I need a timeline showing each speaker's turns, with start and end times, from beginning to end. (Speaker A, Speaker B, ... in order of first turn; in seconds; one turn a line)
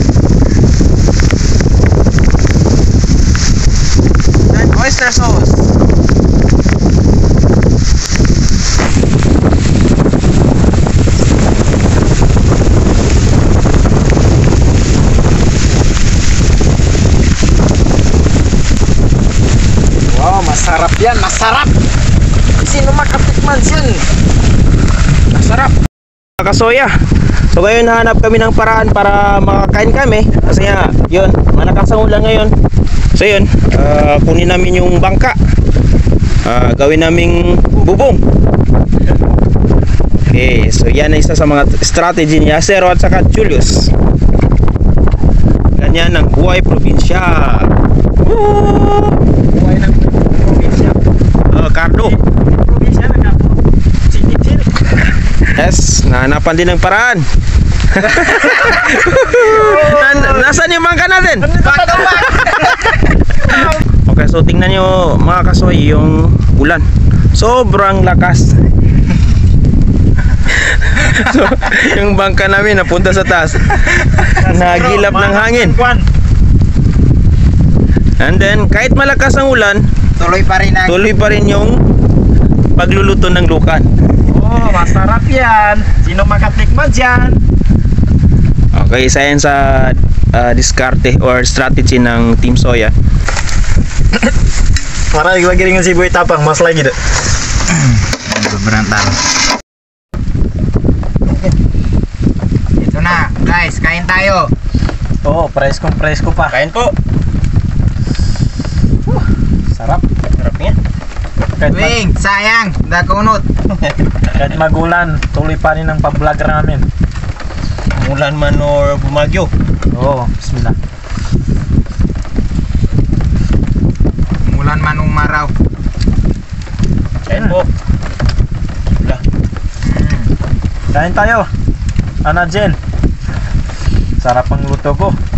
Speaker A: 4.5-5.6
Speaker B: 20.1-21.7
Speaker B: 22.7-24.0
Speaker A: 25.3-25.8
Speaker A: 26.4-32.5
Speaker A: 33.1-35.4
Speaker A: 36.5-38.2
Speaker A: 40.3-43.9
Speaker A: 45.8-47.7
Speaker A: 48.2-49.2
Speaker B: 49.5-51.0
Speaker A: 51.5-52.1
Speaker B: 52.0-54.7
Speaker A: 55.5-57.3
Speaker A: 57.9-61.5
Speaker B: 58.2-60.6
Speaker B: 61.4-63.8
Speaker C: 61.7-62.8
Speaker A: 63.5-68.6
Speaker A: 70.5-75.8
Speaker B: 74.2-76.1
Speaker A: 78.2-79.9
Speaker C: 80.2-81.0
Speaker A: 80.9-81.8
Speaker A: 82.8-83.9
Speaker B: 84.3-87.4
Speaker A: 88.7-92.9
Speaker B: 95.1-97.0
Speaker C: 97.8-99.2
Speaker A: 101.3-101.5
Speaker C: 102.8-104.5
Speaker B: 105.2-106.6
Speaker A: 106.5-107.0
Speaker B: 109.7-110.0
Speaker A: 110.4-110.8
Speaker B: 111.6-112.0
Speaker C: 111.7-113.5
Speaker A: 113.7-114.3
Speaker B: 114.3-116.9
Speaker A: 117.9-119.5
Speaker B: 119.9-120.8
Speaker C: 124.4-125.5
Speaker A: 127.3-127.7
Speaker B: 127.3-127.6
Speaker C: 129.8-130.3
Speaker B: 130.9-131.5
Speaker B: 132.2-132.8
Speaker B: 134.2-135.2